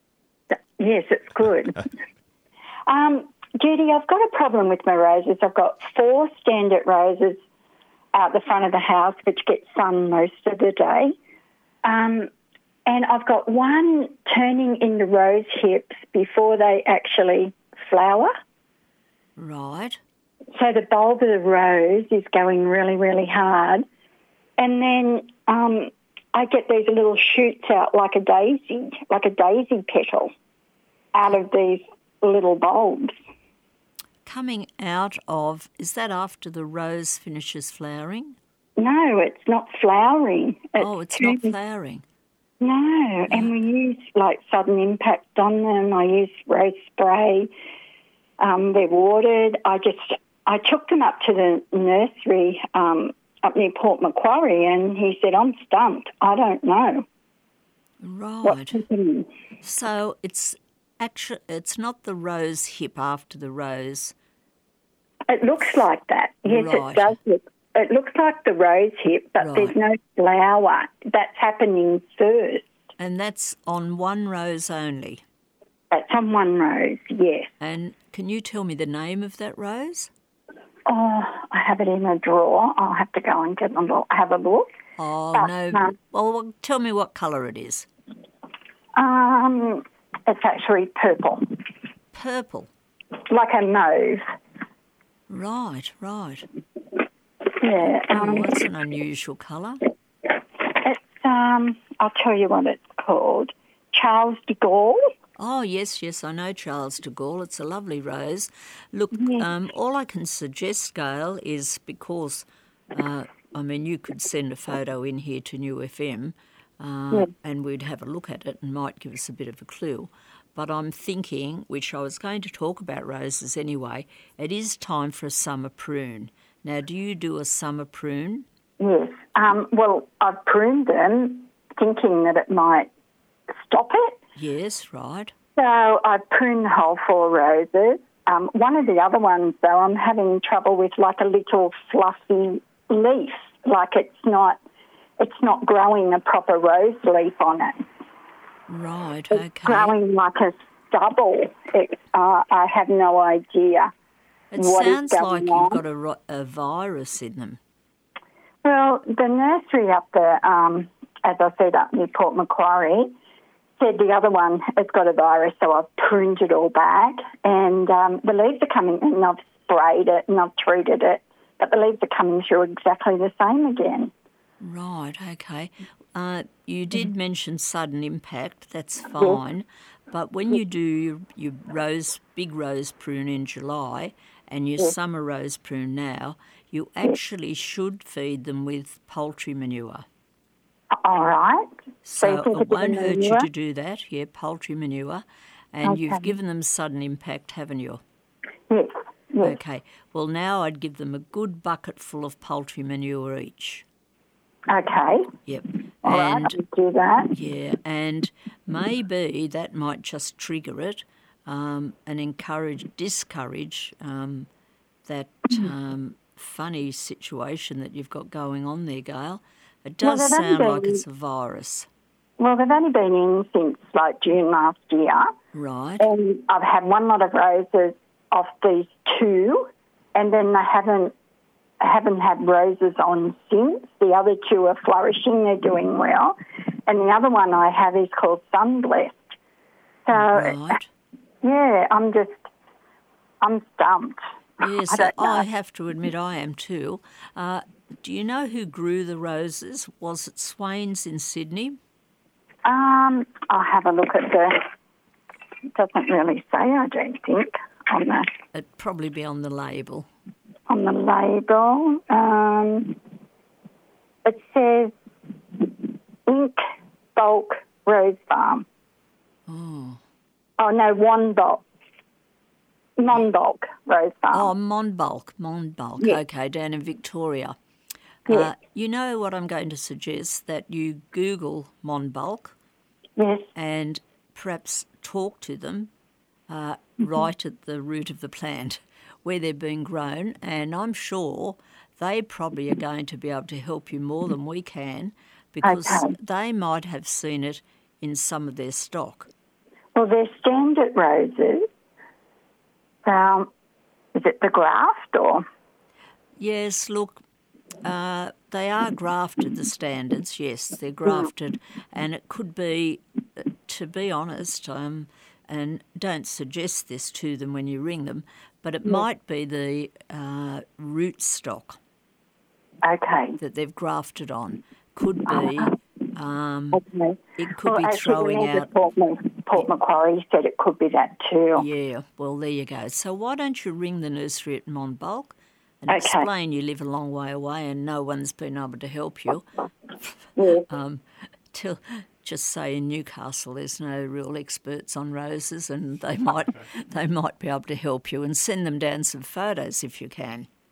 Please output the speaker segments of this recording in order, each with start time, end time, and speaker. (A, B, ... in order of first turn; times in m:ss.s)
0:00.8-0:01.9 A
0:02.9-0:07.4 A
0:08.1-0:11.2 A
0:11.8-0:12.3 A
0:12.9-0:18.3 A
0:19.4-0:20.0 B
0:20.5-0:23.9 A
0:24.6-0:30.3 A
0:31.1-0:33.2 A
0:34.2-0:38.4 B
0:38.8-0:41.5 A
0:40.8-0:42.0 B
0:42.6-0:47.5 A
0:48.4-0:57.1 A
0:58.0-0:58.8 B
0:58.4-0:59.3 A
0:59.6-1:04.2 B
1:05.3-1:12.7 A
1:06.5-1:07.2 B
1:09.4-1:09.8 B
1:13.0-1:15.2 B
1:15.9-1:17.5 A
1:17.6-1:20.1 B
1:20.9-1:24.7 A
1:25.0-1:27.9 B
1:25.3-1:25.9 A
1:29.0-1:31.5 A
1:32.1-1:32.7 B
1:33.3-1:34.2 A
1:35.3-1:36.5 B
1:37.6-1:38.6 A
1:38.1-1:39.8 B
1:40.7-1:45.1 A
1:45.4-2:08.5 B
1:49.2-1:49.5 A
2:08.8-2:12.9 A
2:13.6-2:14.2 A
2:14.4-2:15.3 B
2:15.6-2:24.6 A
2:25.2-2:27.9 A
2:28.7-2:30.0 B
2:29.3-2:33.9 A
2:34.5-2:37.6 B
2:34.6-2:35.8 A
2:38.6-2:43.1 A
2:43.8-2:54.1 A
2:54.6-3:10.1 B
3:11.0-3:13.5 A
3:12.0-3:18.0 B
3:15.8-3:16.3 A
3:18.7-3:19.6 A
3:19.4-3:23.8 B
3:24.7-3:25.3 A
3:25.5-3:26.6 B
3:26.0-3:27.3 A
3:27.3-3:34.5 B
3:35.1-3:41.9 B
3:40.0-3:41.0 A
3:42.4-3:45.3 A
3:45.5-3:46.1 B
3:46.0-3:51.1 A
3:51.8-3:59.2 A
4:00.0-4:00.8 A
4:00.1-4:00.9 B
4:01.4-4:02.4 A
4:03.4-4:05.4 A
4:04.6-4:11.8 B
4:12.6-4:14.6 A
4:15.7-4:18.3 A
4:18.5-4:20.1 B
4:20.7-4:23.0 A
4:24.2-4:24.9 A
4:25.5-4:28.7 A
4:29.5-4:30.0 B
4:30.6-4:31.6 A
4:33.0-4:34.5 A
4:34.3-4:37.6 B
4:38.3-4:38.5 A
4:38.3-4:42.6 B
4:43.2-4:43.5 A
4:43.6-4:45.9 B
4:46.5-4:59.3 B
4:55.6-4:56.1 A
5:00.0-5:01.7 A
5:03.0-5:03.5 A
5:04.1-5:05.4 A
5:06.4-5:07.2 B
5:07.8-5:21.8 B
5:22.8-5:23.4 A
5:23.4-5:26.8 B
5:25.3-5:25.8 A
5:26.7-5:31.7 A
5:27.4-5:28.7 B
5:31.6-5:39.5 B
5:35.9-5:36.3 A
5:40.4-5:40.7 A
5:40.7-5:50.5 B